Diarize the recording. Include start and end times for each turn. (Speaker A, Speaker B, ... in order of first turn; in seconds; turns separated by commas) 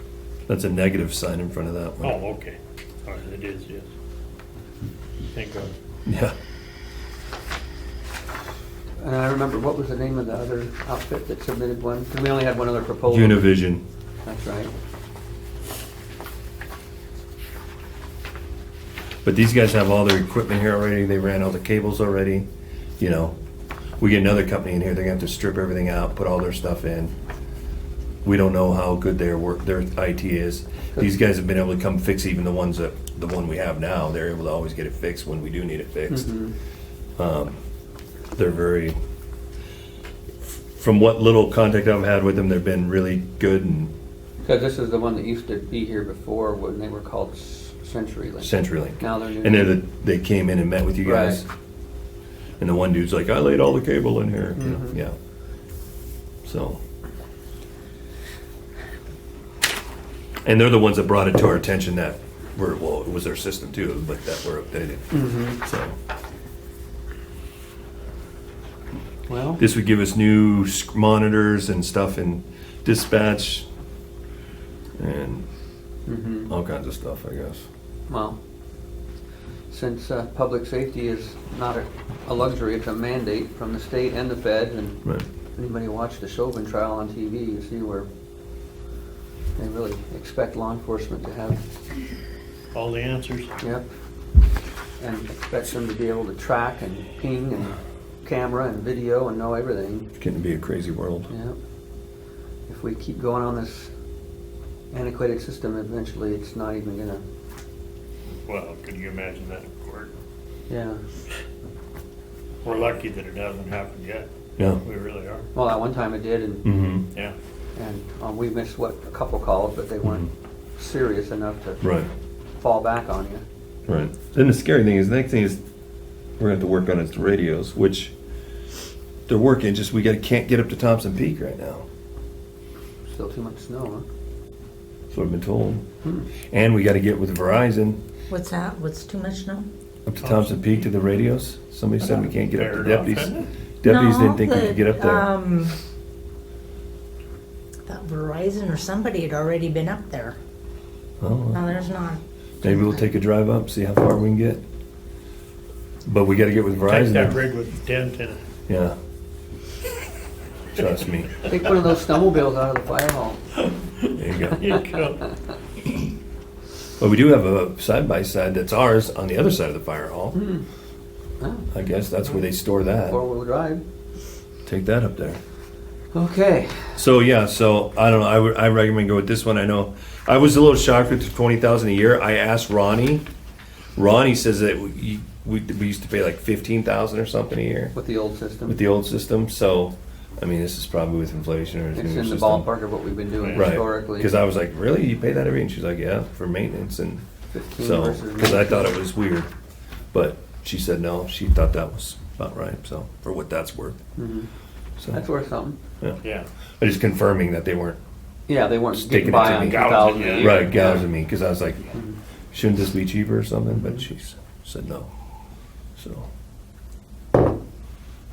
Speaker A: 0.5-2.2, Speaker B: 2.0-3.9, Speaker B: 5.3-5.7, Speaker A: 6.1-6.3, Speaker C: 9.0-13.5, Speaker A: 13.1-13.8, Speaker C: 14.2-14.7, Speaker A: 19.2-22.5, Speaker A: 23.0-23.4, Speaker A: 24.0-27.1, Speaker A: 28.2-36.3, Speaker C: 36.1-36.5, Speaker A: 37.2-37.5, Speaker A: 38.3-39.0, Speaker A: 40.8-43.9, Speaker C: 44.4-49.8, Speaker A: 48.4-51.4, Speaker C: 51.0-51.4, Speaker A: 52.6-55.1, Speaker C: 54.6-55.0, Speaker A: 56.5-56.8, Speaker A: 60.5-66.0, Speaker C: 65.1-65.6, Speaker C: 69.3-69.6, Speaker A: 69.6-73.7, Speaker A: 75.0-75.5, Speaker C: 76.1-76.5, Speaker A: 76.5-77.7, Speaker C: 78.1-78.4, Speaker C: 79.7-85.0, Speaker C: 85.6-88.1, Speaker C: 89.6-91.6, Speaker B: 92.7-93.5, Speaker C: 93.6-93.9, Speaker C: 95.0-100.1, Speaker A: 100.2-101.3, Speaker C: 101.3-101.6, Speaker C: 102.7-103.9, Speaker C: 104.9-107.2, Speaker B: 108.5-110.1, Speaker C: 110.7-111.0, Speaker B: 112.6-114.3, Speaker A: 114.6-114.8, Speaker B: 114.8-115.5, Speaker C: 115.5-116.7, Speaker A: 116.6-117.0, Speaker C: 117.8-121.8, Speaker A: 121.8-122.1, Speaker C: 122.6-123.4, Speaker A: 123.9-125.6, Speaker A: 126.4-128.1, Speaker A: 129.3-131.9, Speaker C: 133.1-134.1, Speaker A: 135.1-135.8, Speaker A: 136.5-138.0, Speaker D: 138.3-139.7, Speaker A: 140.1-145.3, Speaker B: 140.2-140.8, Speaker B: 142.0-143.5, Speaker D: 143.8-145.8, Speaker D: 147.9-150.4, Speaker A: 151.2-151.6, Speaker D: 151.5-153.0, Speaker A: 152.6-154.6, Speaker A: 156.1-157.4, Speaker B: 156.8-158.4, Speaker A: 158.7-158.9, Speaker A: 160.7-161.4, Speaker C: 161.4-163.4, Speaker B: 164.0-165.3, Speaker A: 164.2-164.7, Speaker A: 167.0-170.4, Speaker C: 170.3-170.6, Speaker C: 171.4-171.7, Speaker A: 171.7-173.2, Speaker C: 173.0-173.8, Speaker A: 174.7-175.4, Speaker C: 176.1-177.0, Speaker A: 177.0-183.2, Speaker A: 184.0-187.9, Speaker C: 187.9-188.8, Speaker A: 188.7-192.7, Speaker C: 191.9-194.3, Speaker B: 193.4-193.7, Speaker A: 193.5-197.2, Speaker C: 197.5-199.0, Speaker A: 197.8-199.5, Speaker A: 200.1-204.0, Speaker C: 204.2-204.5, Speaker C: 205.1-205.8, Speaker B: 206.2-206.5, Speaker A: 206.8-208.0, Speaker C: 208.5-211.0, Speaker A: 208.9-211.9, Speaker B: 209.2-211.1, Speaker A: 212.5-215.1, Speaker C: 213.7-214.0, Speaker A: 216.0-216.3